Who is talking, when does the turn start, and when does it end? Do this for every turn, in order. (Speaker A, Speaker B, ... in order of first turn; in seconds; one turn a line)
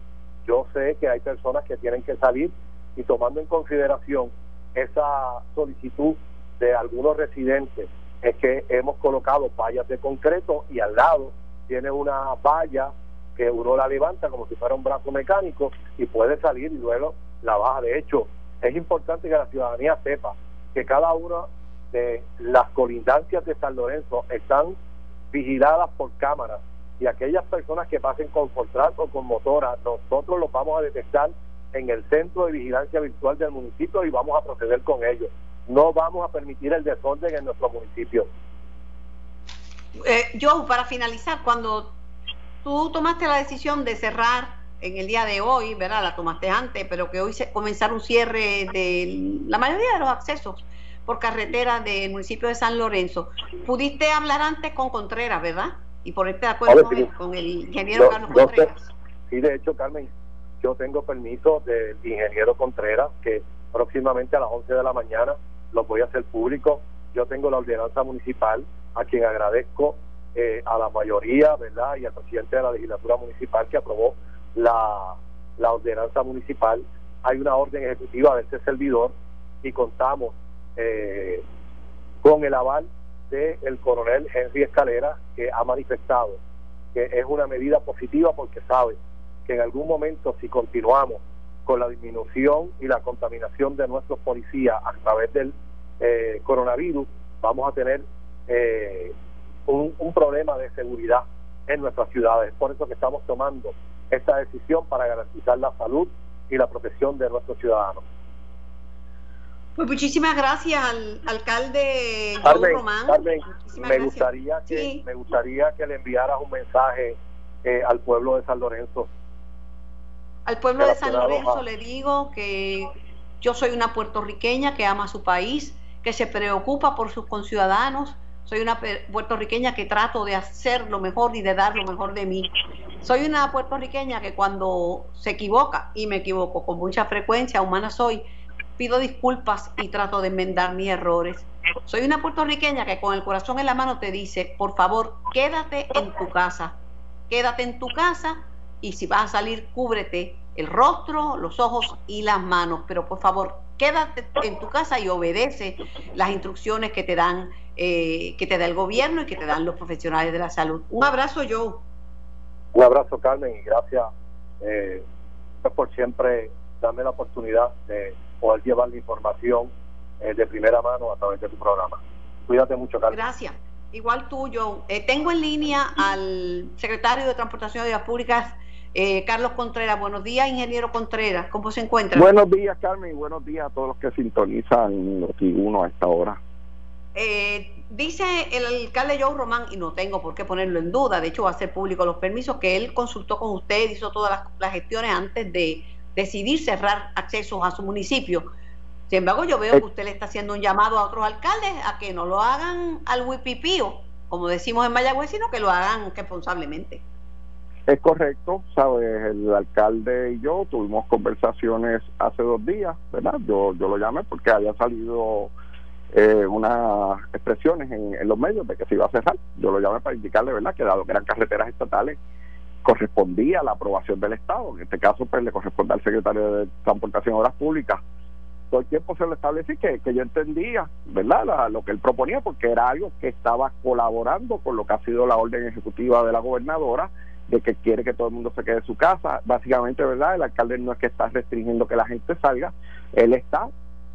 Speaker A: 0.5-24.7
Speaker A: 25.3-38.3
Speaker B: 40.0-41.9
Speaker B: 42.6-58.9
Speaker A: 56.7-57.1
Speaker A: 57.9-58.7
Speaker A: 59.3-60.1
Speaker A: 60.6-81.4
Speaker A: 82.2-86.4
Speaker A: 86.9-99.1
Speaker A: 99.7-108.0
Speaker B: 109.8-115.0
Speaker A: 112.4-119.1
Speaker B: 120.5-132.5
Speaker A: 120.8-121.6
Speaker B: 133.0-138.2
Speaker B: 138.8-146.8
Speaker B: 147.3-161.8
Speaker A: 162.7-164.1
Speaker A: 164.6-165.0
Speaker A: 165.6-169.7
Speaker A: 170.2-173.2
Speaker B: 173.1-182.3
Speaker C: 182.1-186.4
Speaker B: 187.1-198.5
Speaker B: 199.1-207.0
Speaker C: 207.9-215.5
Speaker C: 216.1-222.2
Speaker C: 222.8-228.0
Speaker C: 228.7-243.7